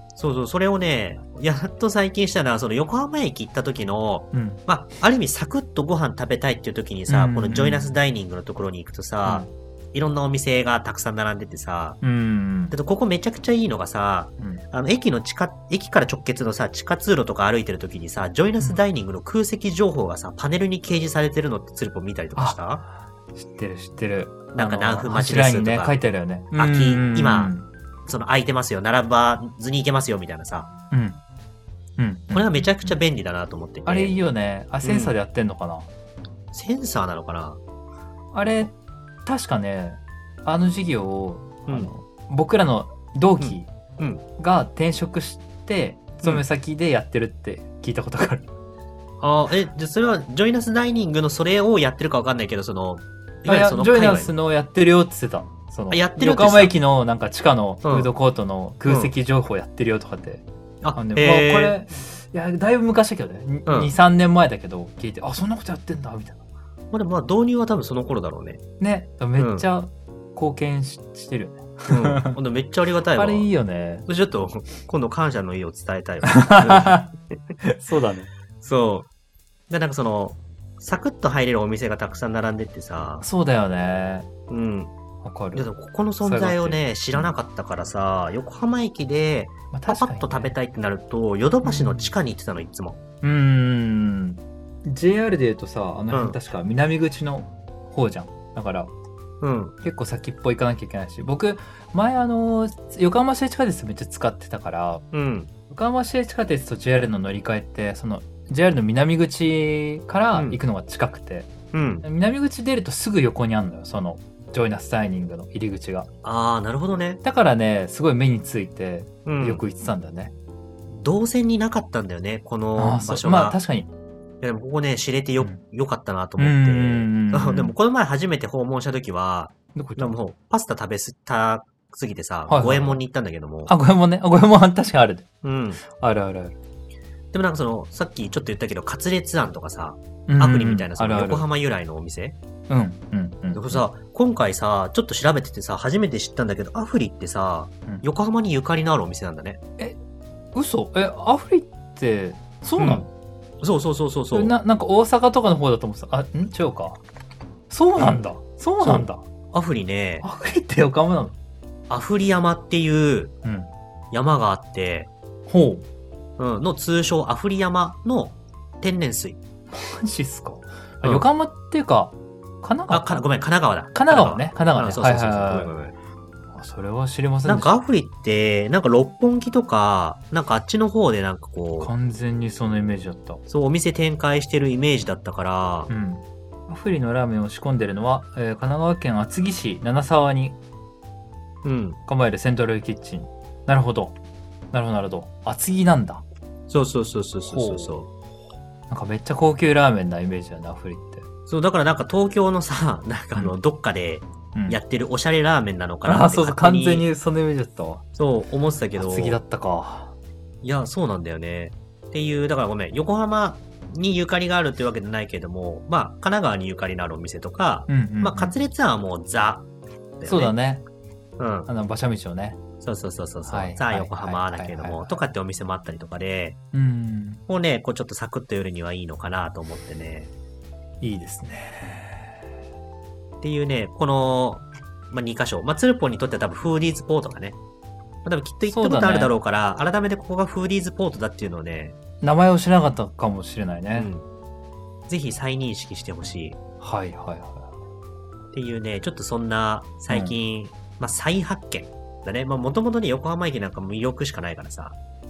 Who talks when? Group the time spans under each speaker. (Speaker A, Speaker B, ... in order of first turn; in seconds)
Speaker A: 0.2-12.0, 12.7-22.8, 24.5-26.0, 26.5-27.5, 28.1-30.7, 32.3-34.1, 34.8-35.1, 36.5-37.6, 43.4-44.2, 49.2-54.3, 55.9-56.7, 57.8-58.1, 58.9-59.1, 60.8-61.8, 63.7-63.9, 66.9-68.6, 69.4-69.7, 71.9-73.5, 74.1-77.3, 78.6-79.1, 79.7-83.2, 84.5-84.9, 85.5-93.0, 96.1-96.4, 99.4-99.8, 105.1-105.5, 110.3-110.6, 111.7-112.1, 116.2-117.2, 119.3-119.6, 120.9-123.6, 124.4-133.7, 135.4-135.8, 137.3-142.4, 143.5-149.6, 152.8-153.1, 153.6-154.6, 158.0-158.2, 158.8-160.3, 161.9-163.3, 164.1-165.1, 166.4-169.4, 172.9-175.9, 177.4-181.9, 183.5-185.9, 191.6-192.0, 196.7-198.1, 201.5-207.1, 208.2-209.4, 210.6-219.7, 220.2-220.6, 221.4-221.7, 222.8-226.6, 227.5-230.3, 233.4-237.6, 238.2-242.0, 243.9-244.3, 245.1-246.6, 248.5-255.0
Speaker B: 4.3-4.6, 7.1-8.0, 9.2-9.5, 12.0-12.8, 22.4-27.7, 30.9-31.2, 32.0-33.0, 33.9-35.9, 38.3-38.8, 39.3-43.7, 44.4-48.5, 53.5-60.4, 61.0-66.4, 68.8-72.4, 73.1-74.1, 76.2-78.3, 83.2-84.3, 85.2-85.7, 86.2-87.3, 89.7-90.5, 91.6-92.1, 93.2-98.9, 99.8-105.0, 105.7-111.5, 112.0-116.1, 117.2-120.3, 122.8-123.9, 126.4-127.7, 129.8-130.2, 132.5-133.0, 133.7-135.3, 135.8-136.6, 140.3-141.5, 142.7-143.8, 150.6-153.1, 154.3-157.0, 157.7-159.3, 160.2-161.3, 163.4-163.7, 165.5-165.9, 169.7-173.3, 173.9-175.7, 176.5-177.8, 181.8-183.4, 185.9-190.6, 192.1-194.2, 194.7-196.2, 197.5-198.0, 198.9-201.3, 204.6-204.8, 206.1-208.1, 208.9-210.2, 217.9-218.6, 220.2-220.8, 221.7-222.6, 223.5-225.2, 226.7-227.4, 231.0-232.4, 238.7-239.3, 242.2-244.1, 246.8-247.7, 250.1-250.4